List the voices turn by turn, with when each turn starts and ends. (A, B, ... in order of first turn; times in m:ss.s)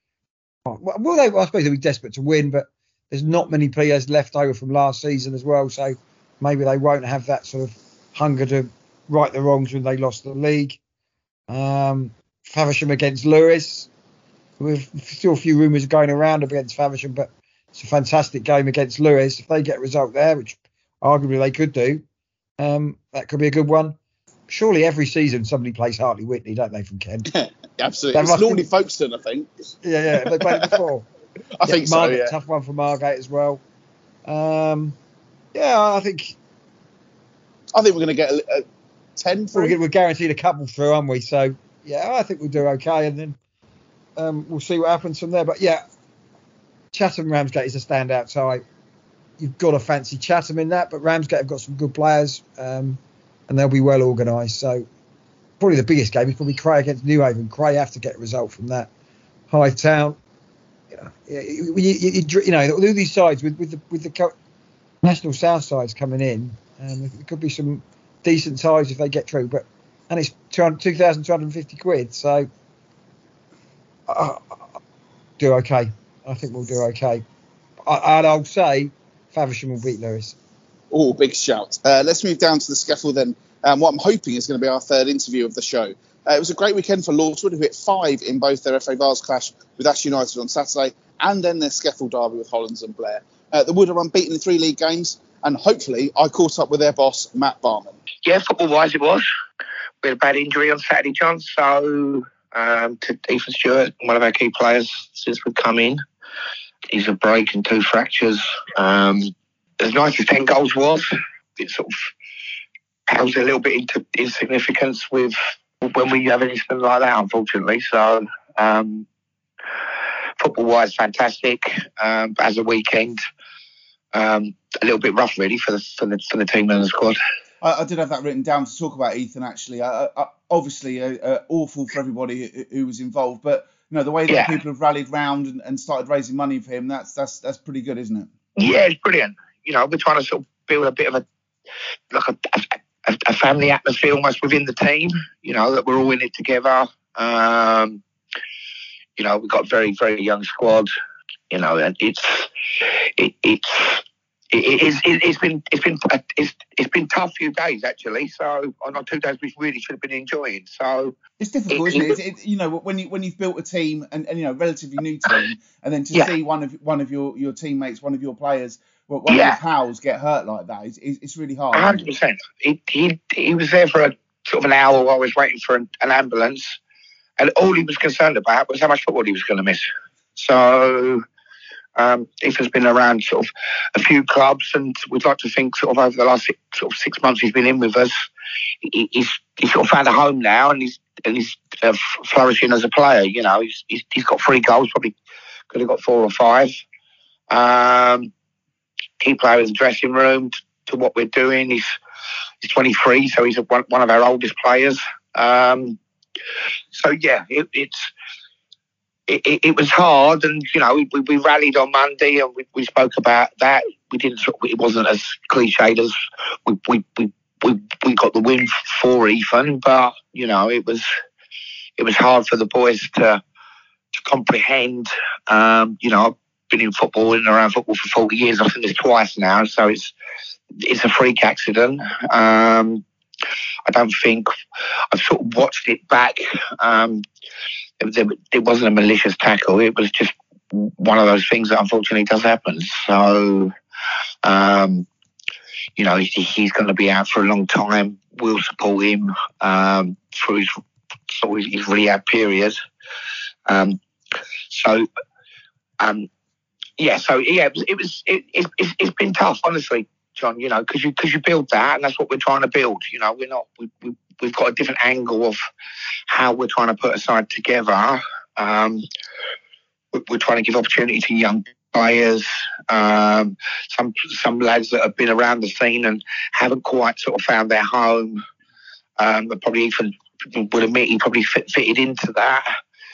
0:00.6-0:10.8 A
0:11.5-0:13.9 A
0:14.6-0:22.0 A
0:22.6-0:24.0 A
0:24.5-0:27.3 A
0:27.3-0:29.5 B
0:28.1-0:28.7 A
0:29.8-0:31.1 A
0:30.4-0:30.7 B
0:31.6-0:32.3 B
0:31.6-0:33.6 A
0:34.2-0:35.0 A
0:35.5-0:36.3 A
0:37.7-0:38.6 B
0:39.2-0:39.8 B
0:39.5-0:43.4 A
0:44.2-0:45.8 A
0:46.9-0:48.6 A
0:49.4-0:54.8 A
0:55.6-0:58.9 A
0:59.5-1:00.2 A
1:00.9-1:04.3 A
1:05.0-1:12.5 A
1:14.1-1:14.6 A
1:15.4-1:17.2 A
1:17.9-1:20.4 A
1:20.9-1:38.0 B
1:38.2-1:39.3 C
1:40.0-1:46.0 C
1:46.9-1:52.0 C
1:53.1-1:59.0 C
2:00.4-2:03.2 C
2:04.1-2:07.2 C
2:07.6-2:18.3 B
2:14.3-2:14.6 C
2:18.6-2:21.2 C
2:22.1-2:28.0 C
2:29.2-2:30.9 C
2:31.5-2:32.5 C
2:33.2-2:41.2 C
2:41.4-2:52.1 B
2:41.7-2:42.1 C
2:49.3-2:49.6 C
2:51.7-2:56.8 C
2:57.4-2:59.8 C
3:00.4-3:01.2 C
3:02.0-3:08.2 C
3:08.8-3:15.1 C
3:15.7-3:16.7 C
3:17.5-3:18.3 C
3:19.2-3:21.9 C
3:22.6-3:26.0 C
3:26.9-3:28.1 C
3:29.3-3:41.1 C
3:42.0-3:43.4 C
3:44.1-3:50.1 C
3:50.8-3:53.0 C
3:53.9-3:54.5 C
3:55.1-3:57.2 C
3:58.0-4:03.7 C
4:04.4-4:05.0 C
4:06.0-4:10.8 C
4:11.3-4:12.8 C
4:13.7-4:14.0 C
4:14.7-4:15.0 C
4:16.0-4:16.3 C
4:17.0-4:25.6 C
4:26.3-4:29.0 C
4:30.1-4:38.4 C
4:39.2-4:42.6 C